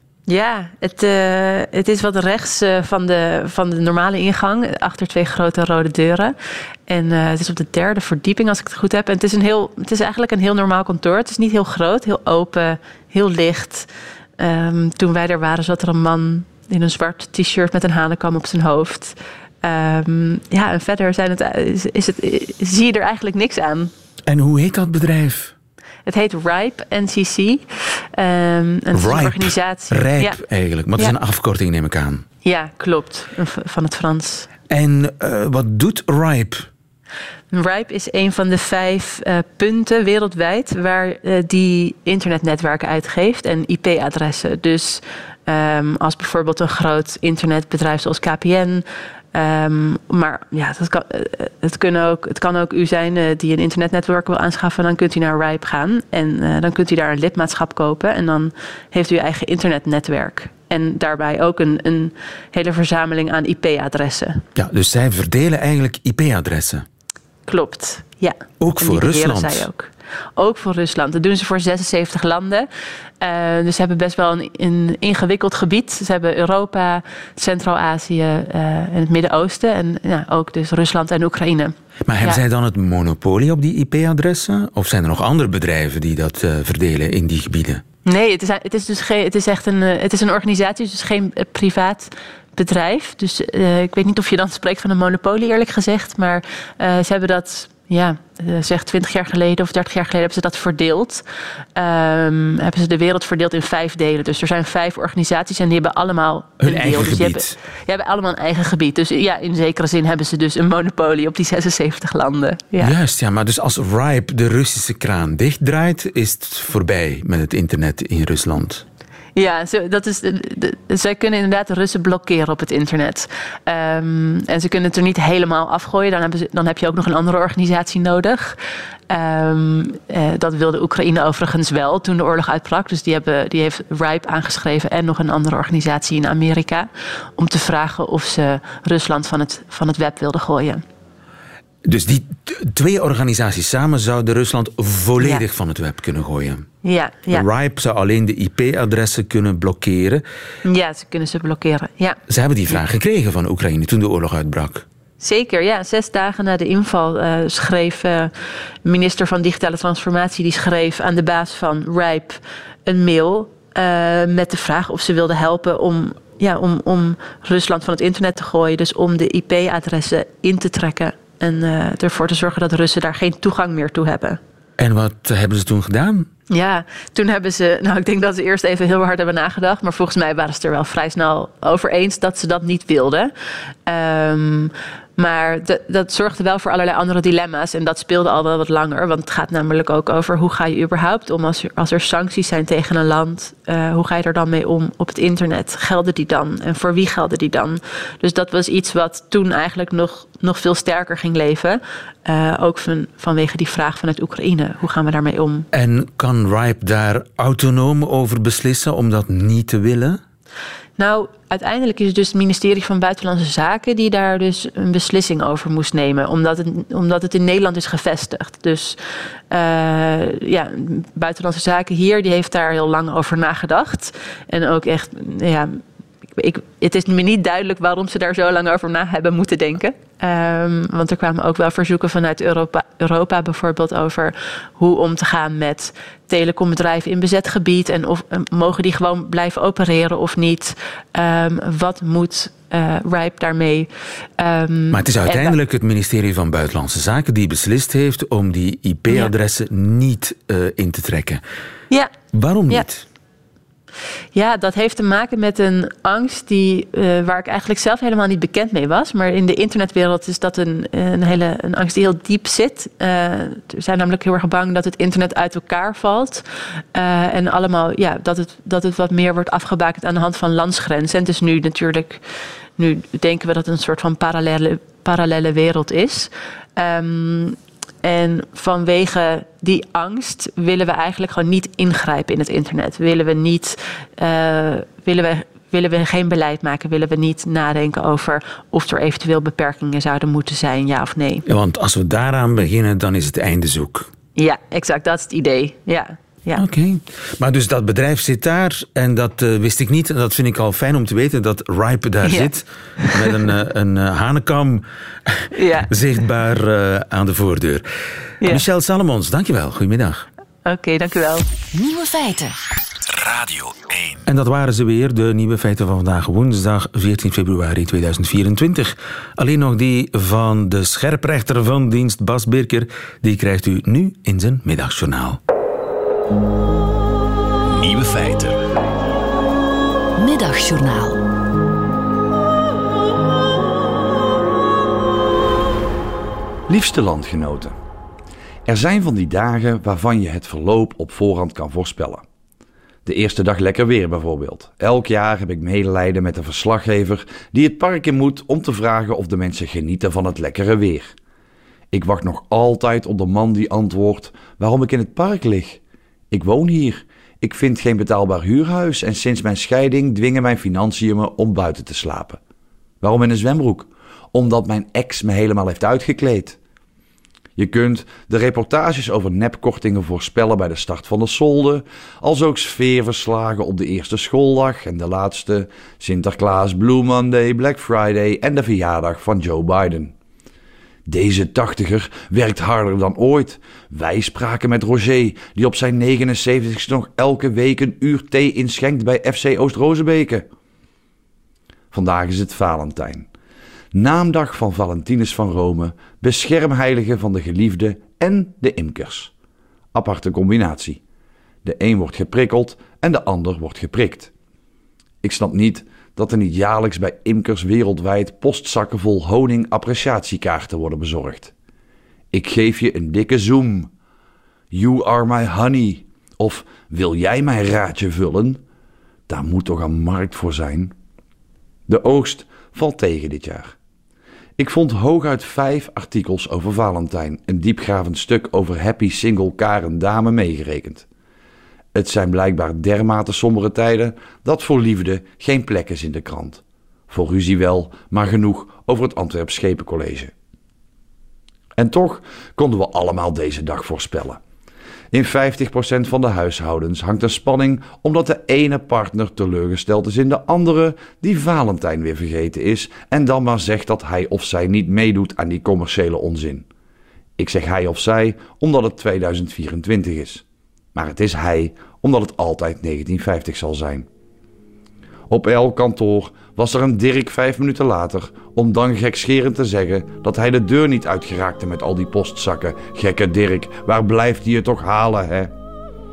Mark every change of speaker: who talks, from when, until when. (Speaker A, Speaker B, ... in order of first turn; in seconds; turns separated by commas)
Speaker A: 0.3-6.3, Speaker A: 6.9-13.9, Speaker A: 14.4-23.9, Speaker B: 24.3-25.5, Speaker A: 26.1-27.6, Speaker A: 28.1-30.4, Speaker B: 28.9-32.2, Speaker A: 32.4-34.5, Speaker B: 34.7-36.7, Speaker A: 37.5-64.4, Speaker B: 64.5-66.8, Speaker A: 67.5-72.7, Speaker B: 68.6-69.7, Speaker A: 73.2-82.4, Speaker B: 82.1-87.8, Speaker A: 88.0-101.2, Speaker A: 101.7-112.9, Speaker B: 106.6-107.5, Speaker B: 112.8-118.8, Speaker A: 119.3-128.6, Speaker A: 129.1-140.8, Speaker B: 141.8-146.6, Speaker A: 145.2-145.4, Speaker A: 146.8-147.4, Speaker B: 147.3-150.2, Speaker A: 150.6-152.2, Speaker B: 152.3-154.8, Speaker A: 155.2-158.3, Speaker A: 158.8-174.4, Speaker B: 174.8-176.3, Speaker A: 176.5-183.3, Speaker A: 183.8-205.7, Speaker B: 205.7-210.2, Speaker A: 211.0-219.0, Speaker A: 219.5-225.8, Speaker A: 226.4-245.6, Speaker B: 244.9-251.4, Speaker B: 252.3-253.0, Speaker A: 254.3-266.4, Speaker A: 266.9-272.2, Speaker A: 272.8-291.4, Speaker B: 291.5-294.1, Speaker A: 294.4-296.6, Speaker B: 296.6-307.8, Speaker A: 302.2-303.3, Speaker A: 305.5-305.9, Speaker B: 308.4-310.2, Speaker A: 310.6-311.4, Speaker C: 311.7-312.6, Speaker D: 313.2-314.2, Speaker B: 314.3-325.4, Speaker D: 327.7-328.6, Speaker C: 330.2-331.2, Speaker E: 336.7-337.7, Speaker E: 338.6-342.2, Speaker E: 343.1-351.1, Speaker E: 351.9-362.4, Speaker E: 363.0-366.6, Speaker E: 367.6-380.1, Speaker E: 381.1-390.5, Speaker E: 391.9-393.3, Speaker E: 393.9-399.3, Speaker E: 399.9-401.0, Speaker E: 401.6-404.3, Speaker E: 405.2-411.5, Speaker E: 412.3-413.9, Speaker E: 414.7-418.6, Speaker E: 419.3-420.9, Speaker E: 421.9-423.7, Speaker E: 424.6-431.1, Speaker E: 431.9-440.3, Speaker E: 441.8-444.4, Speaker E: 445.1-456.6, Speaker E: 457.4-460.4, Speaker E: 460.9-464.1, Speaker E: 465.3-475.5